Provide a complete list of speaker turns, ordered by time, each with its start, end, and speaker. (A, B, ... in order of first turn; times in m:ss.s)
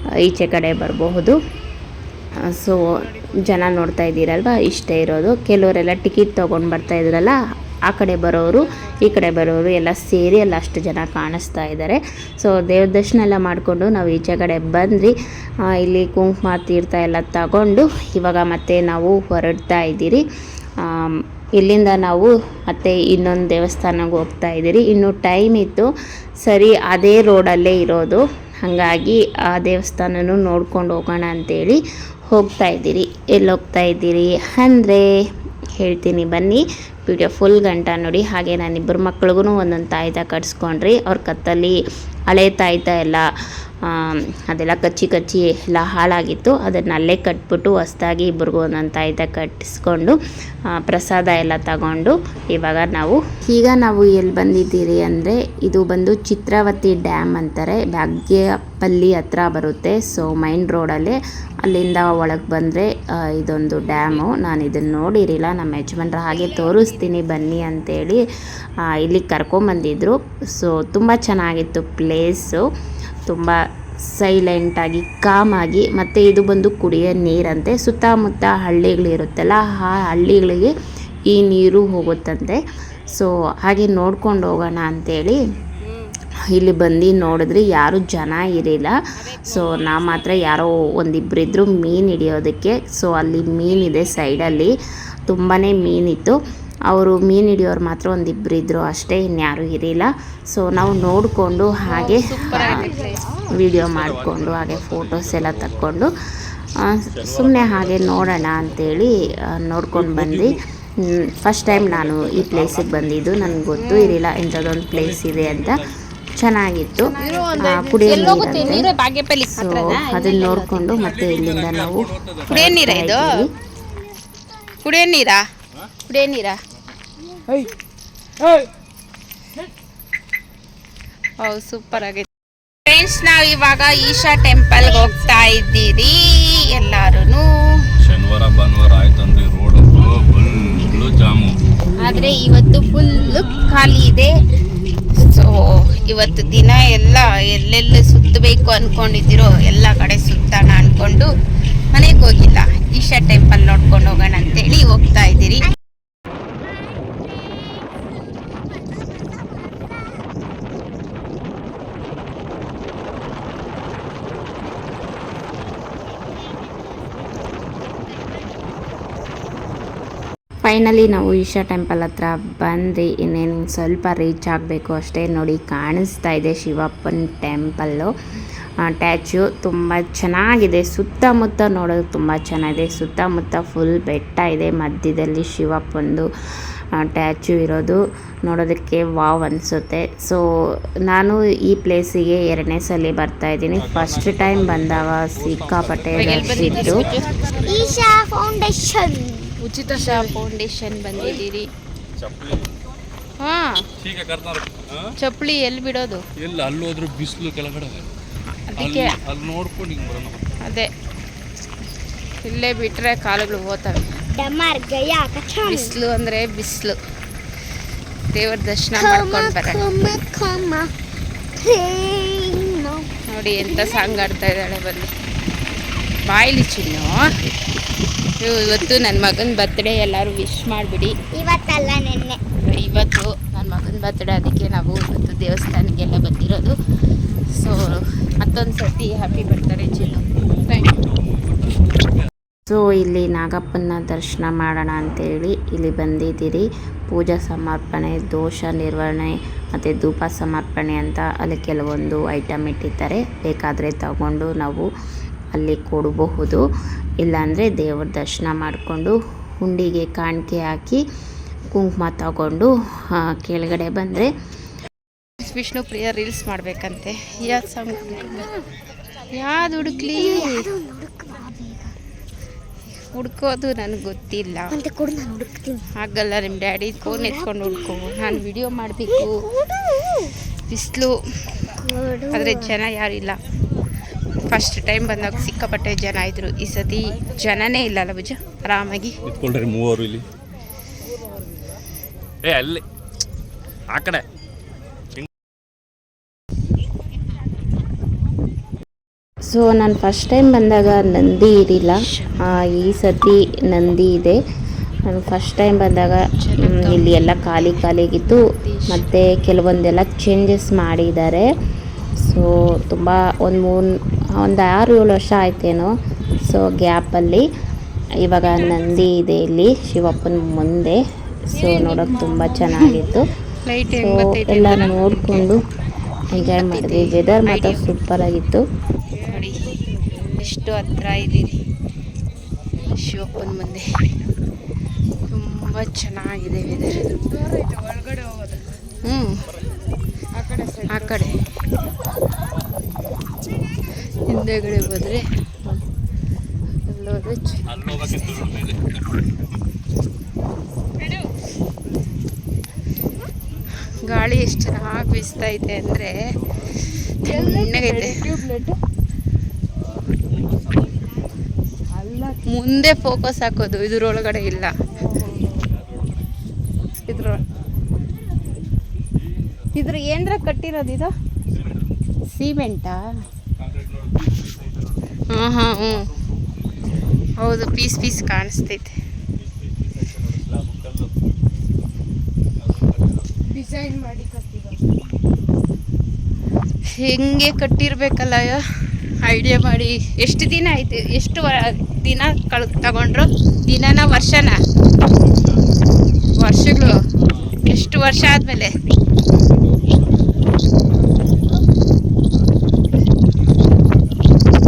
0:00.2-0:01.4 A
0:02.4-0:07.4 A
0:07.9-0:15.1 A
0:15.7-0:20.2 A
0:20.8-0:25.9 A
0:26.4-0:35.0 A
0:35.8-0:41.8 A
0:42.3-0:43.2 A
0:43.8-0:50.2 A
0:50.7-1:08.2 A
1:08.9-1:12.6 A
1:13.3-1:13.6 A
1:14.1-1:20.7 A
1:21.3-1:25.4 A
1:26.5-1:34.7 A
1:29.2-1:30.2 B
1:35.3-1:36.4 A
1:36.9-1:43.0 A
1:42.0-1:43.2 B
1:43.5-1:46.1 A
1:43.7-1:46.0 C
1:46.8-1:55.8 A
1:47.1-1:48.9 C
1:49.9-1:50.6 C
1:51.7-1:53.4 C
1:53.8-1:54.1 B
1:54.9-1:55.9 C
1:56.4-1:58.9 A
1:57.1-2:01.1 B
1:59.6-2:03.5 A
2:01.0-2:02.8 C
2:02.5-2:03.3 B
2:04.8-2:05.4 B
2:06.0-2:06.6 B
2:11.4-2:12.3 B
2:12.9-2:17.8 B
2:18.0-2:21.5 C
2:22.0-2:24.3 B
2:25.2-2:31.3 B
2:31.9-2:35.8 B
2:50.6-2:58.1 A
2:58.8-3:06.3 A
3:07.0-3:10.4 A
3:11.1-3:17.2 A
3:13.8-3:17.8 C
3:16.1-3:17.3 B
3:17.6-3:19.5 D
3:19.6-3:21.7 B
3:21.1-3:21.4 C
3:22.2-3:22.7 C
3:23.4-3:23.8 B
3:24.0-3:25.1 C
3:25.2-3:26.2 B
3:26.4-3:28.1 C
3:28.7-3:29.2 B
3:28.8-3:30.4 C
3:30.6-3:30.9 B
3:32.4-3:34.1 B
3:34.3-3:36.0 D
3:35.6-3:37.0 B
3:38.3-3:39.9 B
3:39.0-3:40.9 D
3:41.6-3:44.3 D
3:43.3-3:45.1 B
3:46.3-3:47.2 B
3:48.4-3:51.2 B
3:51.3-3:52.4 D
3:52.6-3:56.7 B
3:57.5-4:01.0 B
4:02.7-4:14.9 A
4:15.5-4:16.6 A
4:17.2-4:21.0 A
4:21.7-4:24.3 A
4:25.4-4:28.5 B
4:29.3-4:30.5 B
4:29.8-4:32.0 D
4:33.1-4:34.8 B
4:34.7-4:35.9 D
4:36.0-4:39.4 B
4:37.0-4:37.8 D
4:39.1-4:40.3 D
4:40.7-4:41.1 B
4:41.8-4:42.8 D
4:42.3-4:43.4 B
4:44.5-4:49.2 B
4:49.3-4:50.2 C
4:52.4-4:52.8 C
4:53.9-4:54.2 C
4:59.5-5:04.4 A
5:02.1-5:02.5 B
5:05.1-5:11.5 A
5:06.4-5:07.7 B
5:08.2-5:09.0 B
5:12.2-5:15.9 A
5:16.5-5:17.5 A
5:18.2-5:23.2 A
5:22.7-5:23.0 B
5:23.6-5:25.5 B
5:24.0-5:25.6 A
5:26.3-5:28.6 A
5:26.3-5:27.8 B
5:29.2-5:31.6 B
5:32.8-5:33.9 B
5:35.3-5:37.2 B
5:39.0-5:39.4 B
5:40.6-5:41.4 B
5:44.3-5:45.2 B
5:46.9-5:48.5 B
5:47.7-5:48.8 C
5:54.0-5:56.1 B
5:57.2-5:58.7 B
6:02.0-6:04.8 B
6:07.1-6:07.4 B
6:09.7-6:11.1 B
6:12.3-6:13.0 B
6:13.6-6:14.6 C
6:15.3-6:16.1 B
6:17.4-6:18.9 B
6:19.7-6:21.1 C
6:22.6-6:23.2 C
6:23.6-6:24.5 B
6:26.9-6:34.6 B
6:36.4-6:37.0 B
6:37.6-6:38.7 B